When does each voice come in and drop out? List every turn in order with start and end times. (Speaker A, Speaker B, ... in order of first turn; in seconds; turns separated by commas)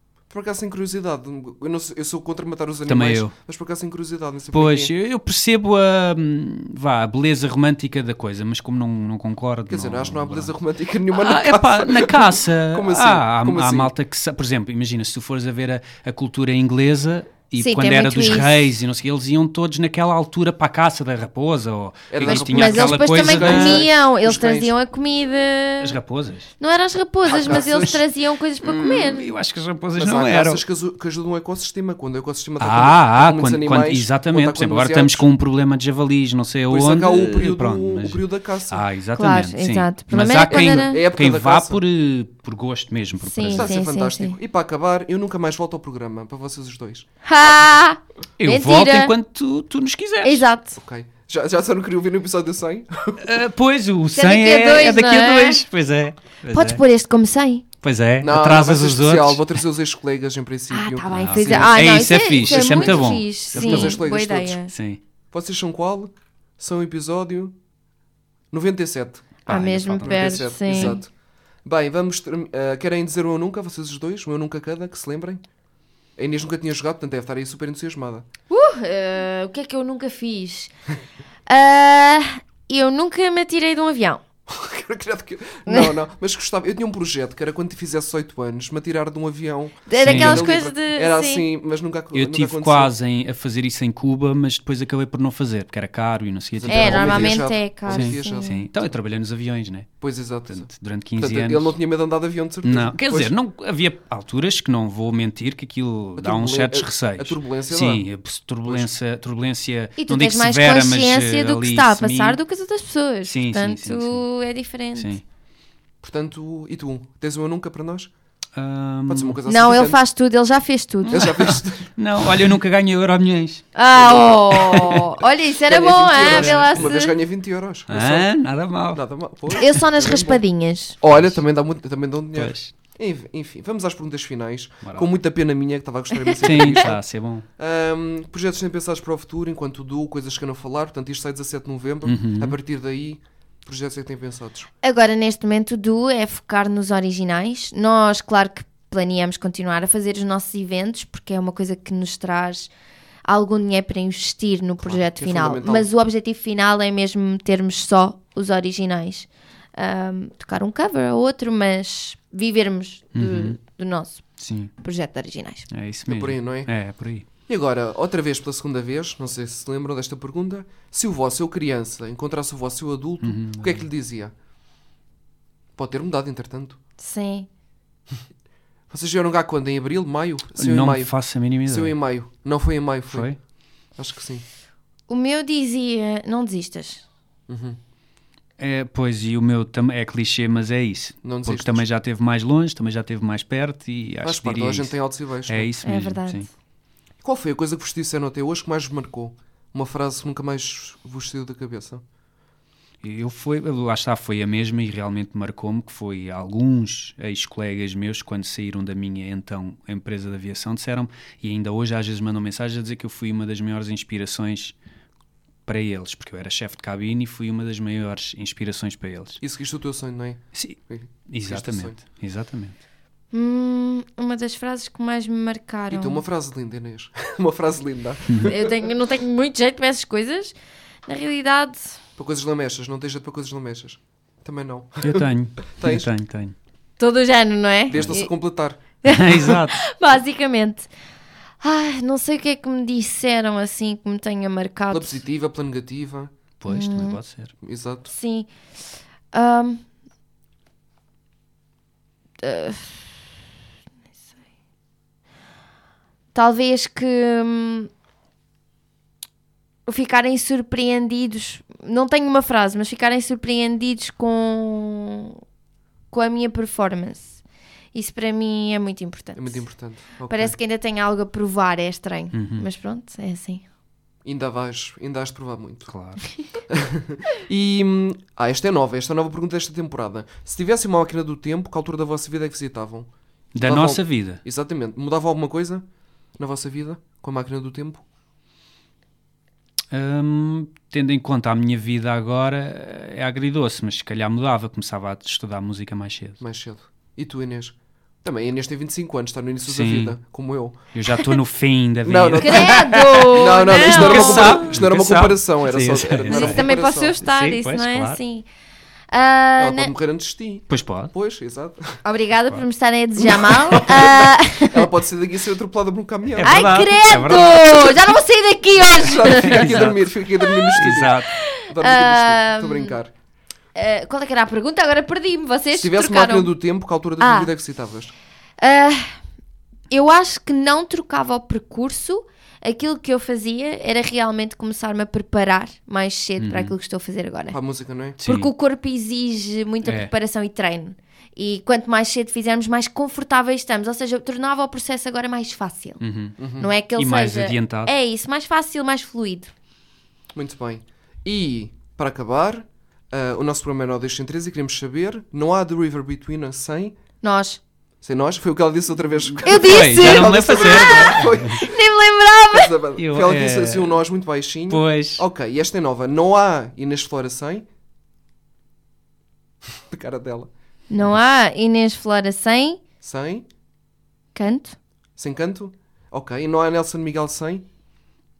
Speaker A: 0.3-4.9, Speaker B: 2.9-3.3, Speaker B: 4.5-10.5, Speaker A: 9.7-13.9, Speaker B: 11.1-23.9, Speaker C: 17.6-18.7, Speaker A: 22.1-24.7, Speaker C: 22.2-26.0, Speaker B: 25.8-26.5, Speaker C: 26.6-29.3, Speaker A: 27.2-28.0, Speaker B: 27.6-27.8, Speaker B: 28.6-30.6, Speaker A: 29.9-35.3, Speaker B: 32.6-43.7, Speaker A: 36.7-38.8, Speaker C: 39.1-41.0, Speaker A: 40.5-41.8, Speaker C: 43.2-44.4, Speaker A: 43.5-47.0, Speaker C: 47.2-49.1, Speaker B: 48.4-50.5, Speaker C: 50.2-50.8, Speaker A: 50.8-53.2, Speaker B: 53.2-56.8, Speaker C: 54.1-55.6, Speaker C: 56.5-57.6, Speaker B: 57.8-59.5, Speaker A: 58.2-64.6, Speaker C: 60.7-64.7, Speaker B: 61.1-64.0, Speaker B: 64.7-65.0, Speaker A: 65.3-67.5, Speaker A: 68.5-69.4, Speaker B: 69.5-71.0, Speaker C: 69.5-71.0, Speaker A: 70.0-71.1, Speaker A: 71.6-75.4, Speaker A: 76.2-78.2, Speaker C: 78.5-80.7, Speaker C: 81.5-84.2, Speaker A: 84.5-92.9, Speaker C: 85.7-85.9, Speaker C: 89.9-91.4, Speaker B: 90.0-90.5, Speaker B: 92.1-97.4, Speaker A: 96.6-98.6, Speaker C: 96.7-98.6, Speaker B: 97.9-99.9, Speaker A: 100.0-103.3, Speaker B: 100.5-101.7, Speaker B: 102.6-112.4, Speaker A: 106.2-108.0, Speaker A: 108.6-108.9, Speaker C: 110.0-115.2, Speaker B: 113.2-114.2, Speaker B: 115.0-115.2, Speaker A: 116.0-118.1, Speaker B: 118.5-119.4, Speaker A: 119.1-120.0, Speaker C: 119.5-121.4, Speaker B: 121.0-125.1, Speaker A: 121.1-121.9, Speaker C: 123.7-127.2, Speaker A: 125.7-128.3, Speaker B: 126.2-126.9, Speaker B: 127.9-129.8, Speaker A: 128.9-130.4, Speaker C: 129.5-131.0, Speaker A: 131.0-137.0, Speaker B: 131.1-131.4, Speaker B: 132.3-132.7, Speaker B: 134.8-135.1, Speaker C: 136.1-136.8, Speaker B: 136.4-137.4, Speaker A: 137.6-144.7, Speaker B: 142.0-142.6, Speaker C: 144.8-152.7, Speaker C: 153.2-164.2, Speaker A: 154.8-155.9, Speaker B: 163.1-163.6, Speaker B: 164.4-164.7, Speaker C: 164.8-165.7, Speaker B: 165.7-167.2, Speaker A: 166.1-166.7, Speaker A: 167.5-174.3, Speaker B: 173.2-173.8, Speaker A: 175.8-176.8, Speaker C: 177.0-177.5, Speaker A: 178.9-181.1, Speaker B: 180.6-181.9, Speaker A: 181.7-183.3, Speaker B: 183.1-183.4, Speaker A: 184.0-184.4, Speaker C: 185.1-187.0, Speaker A: 187.5-187.8, Speaker B: 188.6-194.9, Speaker A: 191.2-191.8, Speaker A: 194.2-195.7, Speaker B: 195.4-196.4, Speaker C: 195.8-196.5, Speaker A: 197.2-202.0, Speaker B: 203.0-214.7, Speaker B: 215.7-219.4, Speaker A: 219.4-222.0, Speaker B: 220.5-222.8, Speaker C: 223.3-226.2, Speaker A: 225.9-228.8, Speaker C: 228.4-230.5, Speaker C: 231.1-232.0, Speaker A: 232.2-236.1, Speaker B: 235.0-236.5, Speaker C: 237.0-238.3, Speaker A: 237.9-238.8, Speaker C: 239.0-240.9, Speaker B: 239.0-239.8, Speaker C: 241.6-245.2, Speaker A: 244.9-246.3, Speaker B: 246.6-247.5, Speaker C: 246.7-247.2, Speaker A: 247.6-248.1, Speaker C: 248.1-248.5, Speaker C: 249.3-249.8, Speaker C: 252.4-253.1, Speaker C: 256.3-257.9, Speaker C: 259.9-265.4, Speaker C: 266.1-267.4, Speaker C: 267.9-269.7, Speaker A: 269.4-270.6, Speaker C: 270.3-273.6, Speaker B: 272.3-272.6, Speaker A: 274.2-275.9, Speaker B: 275.9-276.2, Speaker A: 276.7-285.8, Speaker B: 283.5-284.4, Speaker A: 286.4-288.0, Speaker B: 289.9-296.4, Speaker A: 296.4-300.8, Speaker B: 299.6-300.1, Speaker B: 300.9-308.2, Speaker A: 302.0-307.1, Speaker C: 302.4-304.7, Speaker C: 306.2-308.4, Speaker C: 309.1-309.9, Speaker A: 309.6-312.0, Speaker B: 310.7-311.1, Speaker C: 312.0-314.9, Speaker A: 313.2-316.8, Speaker B: 316.3-317.9, Speaker C: 316.4-319.9, Speaker A: 318.9-323.1, Speaker B: 319.2-320.1, Speaker C: 320.4-320.8, Speaker B: 320.7-321.3, Speaker C: 321.3-322.9, Speaker C: 323.7-326.5, Speaker A: 325.7-328.1, Speaker C: 327.2-327.5, Speaker C: 328.6-329.2, Speaker C: 329.9-337.6, Speaker B: 336.4-336.7, Speaker A: 337.5-338.2, Speaker B: 338.2-338.5, Speaker C: 338.2-346.0, Speaker B: 339.8-340.1, Speaker B: 346.0-346.4, Speaker A: 346.4-346.7, Speaker C: 346.6-349.5, Speaker B: 346.9-347.9, Speaker A: 350.3-356.9, Speaker C: 357.2-357.6, Speaker A: 358.0-361.7, Speaker B: 359.4-361.6, Speaker C: 359.4-362.7, Speaker A: 362.5-367.6, Speaker B: 363.0-363.9, Speaker B: 364.7-365.2, Speaker A: 369.9-370.5, Speaker C: 370.9-372.8, Speaker A: 373.0-373.4, Speaker C: 374.3-374.8, Speaker A: 375.2-377.6